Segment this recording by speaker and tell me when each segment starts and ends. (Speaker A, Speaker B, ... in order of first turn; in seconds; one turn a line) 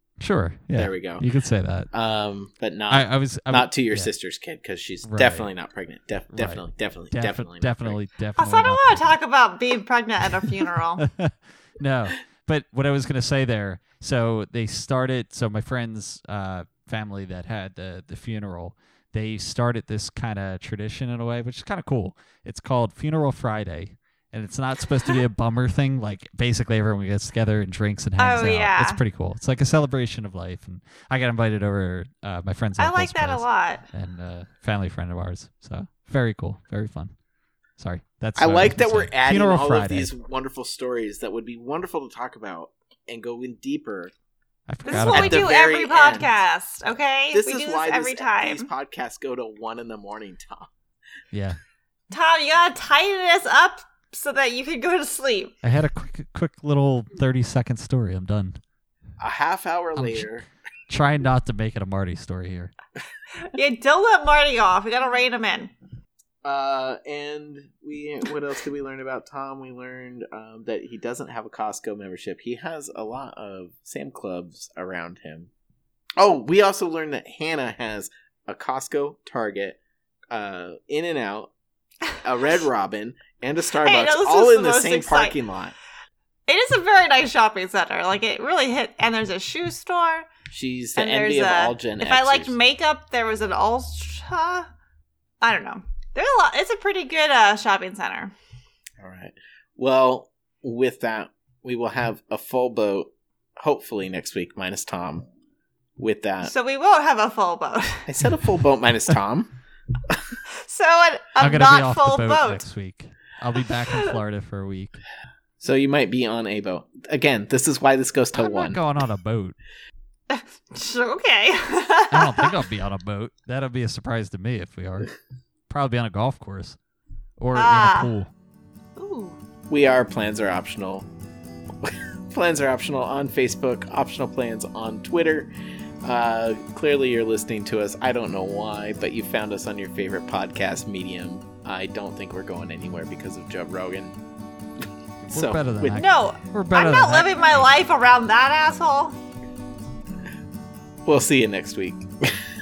Speaker A: 0.2-1.9
Speaker B: 0.8-1.2
Speaker B: 1.9-8.0
Speaker A: 2.9-4.1
Speaker A: 5.0-5.5
Speaker A: 6.3-9.0
Speaker C: 8.4-11.1
Speaker A: 11.0-37.1
Speaker C: 28.2-29.0
Speaker C: 32.8-33.9
Speaker A: 37.8-40.1
Speaker B: 38.4-44.1
Speaker A: 44.7-45.5
Speaker C: 44.9-48.7
Speaker B: 44.9-46.4
Speaker B: 47.3-50.7
Speaker A: 51.3-51.6
Speaker C: 52.1-55.5
Speaker A: 55.6-58.6
Speaker B: 59.2-60.5
Speaker A: 60.0-60.3
Speaker A: 60.9-62.7
Speaker C: 63.5-65.7
Speaker B: 66.5-75.5
Speaker B: 76.2-81.5
Speaker B: 82.2-85.8
Speaker C: 83.8-85.4
Speaker C: 86.5-90.3
Speaker B: 90.5-92.6
Speaker C: 91.0-94.7
Speaker C: 95.4-98.3
Speaker B: 99.0-105.3
Speaker B: 106.0-106.5
Speaker C: 106.4-108.1
Speaker B: 108.1-109.5
Speaker C: 110.6-112.6
Speaker A: 111.4-115.0
Speaker B: 115.6-118.8
Speaker A: 118.3-119.6
Speaker C: 120.3-122.5
Speaker A: 122.1-125.1
Speaker A: 125.7-126.8
Speaker A: 127.4-128.3
Speaker C: 127.6-128.1
Speaker C: 129.0-129.4
Speaker B: 129.7-131.1
Speaker B: 131.8-135.5
Speaker B: 136.0-144.2
Speaker A: 145.2-147.7
Speaker B: 145.3-146.0
Speaker C: 145.9-149.2
Speaker B: 151.1-152.4